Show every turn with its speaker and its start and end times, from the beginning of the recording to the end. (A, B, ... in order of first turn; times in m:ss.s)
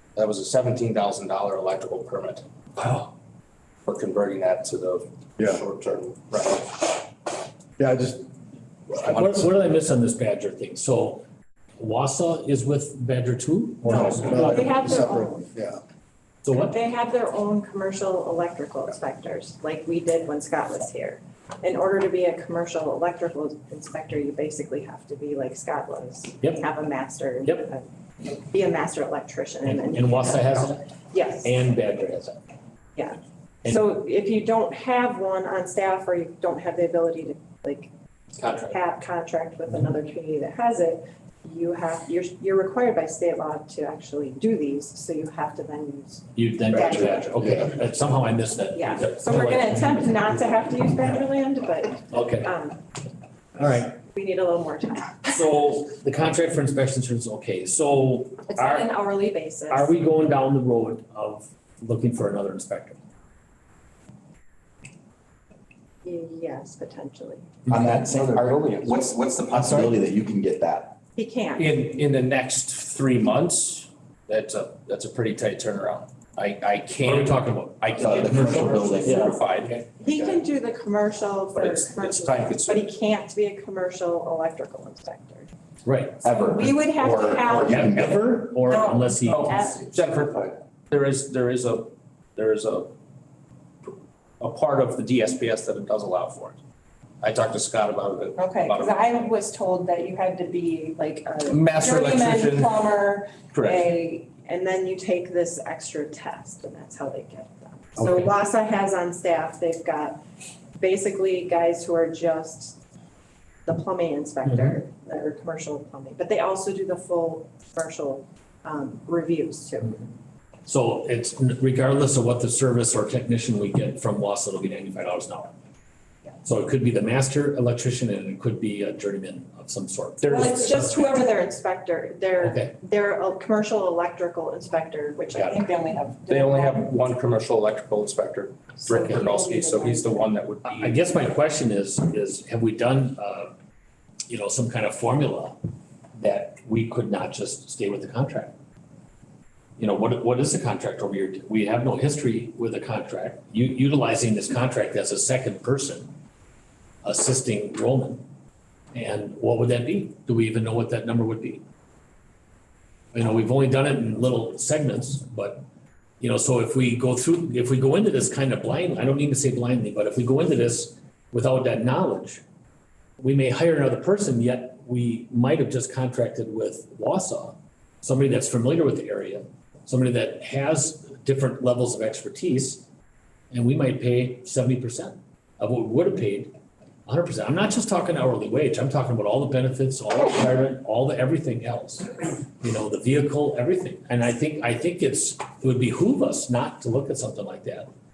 0:00.2-0:03.0 A
0:03.8-0:06.8 A
0:07.8-0:08.3 B
0:08.9-0:09.4 B
0:09.0-0:11.2 C
0:11.8-0:14.8 C
0:13.8-0:15.5 D
0:13.9-0:15.8 B
0:16.4-0:16.8 C
0:16.5-0:31.6 D
0:29.6-0:30.9 C
0:31.4-0:32.4 C
0:33.0-0:37.9 D
0:38.4-0:38.8 C
0:38.7-0:47.6 D
0:46.4-0:50.2 C
0:47.4-0:47.7 B
0:48.7-0:52.8 D
0:52.1-0:52.5 C
0:53.6-0:54.0 C
0:54.0-0:55.3 D
0:55.3-0:58.9 C
0:58.5-1:00.0 D
0:59.7-1:03.0 C
1:06.0-1:07.6 D
1:07.7-1:11.0 E
1:08.0-1:09.8 A
1:11.2-1:11.7 D
1:11.6-1:19.8 A
1:17.0-1:19.9 C
1:18.0-1:19.4 E
1:20.0-1:25.5 D
1:21.6-1:22.9 A
1:25.8-1:26.4 C
1:26.2-1:28.2 E
1:26.4-1:29.9 D
1:27.6-1:29.8 C
1:29.3-1:32.9 A
1:34.4-1:36.6 A
1:37.2-1:39.0 A
1:38.4-1:50.2 D
1:41.5-1:42.8 A
1:43.5-1:43.9 A
1:48.0-1:48.3 C
1:50.8-1:52.8 D
1:53.7-2:00.0 D
1:54.4-1:54.8 C
2:00.6-2:05.6 C
2:06.4-2:11.2 C
2:10.2-2:16.9 D
2:12.4-2:12.8 C
2:15.3-2:15.6 C
2:16.3-2:21.1 A
2:18.8-2:20.3 D
2:19.0-2:19.3 C
2:20.6-2:23.6 C
2:24.3-2:25.6 C
2:26.2-2:28.5 C
2:29.8-2:36.1 C
2:37.0-2:38.2 C
2:38.9-2:41.6 C
2:43.1-2:45.6 C
2:46.2-2:52.4 C
2:53.2-3:02.9 C
3:03.5-3:06.5 C
3:07.1-3:17.9 C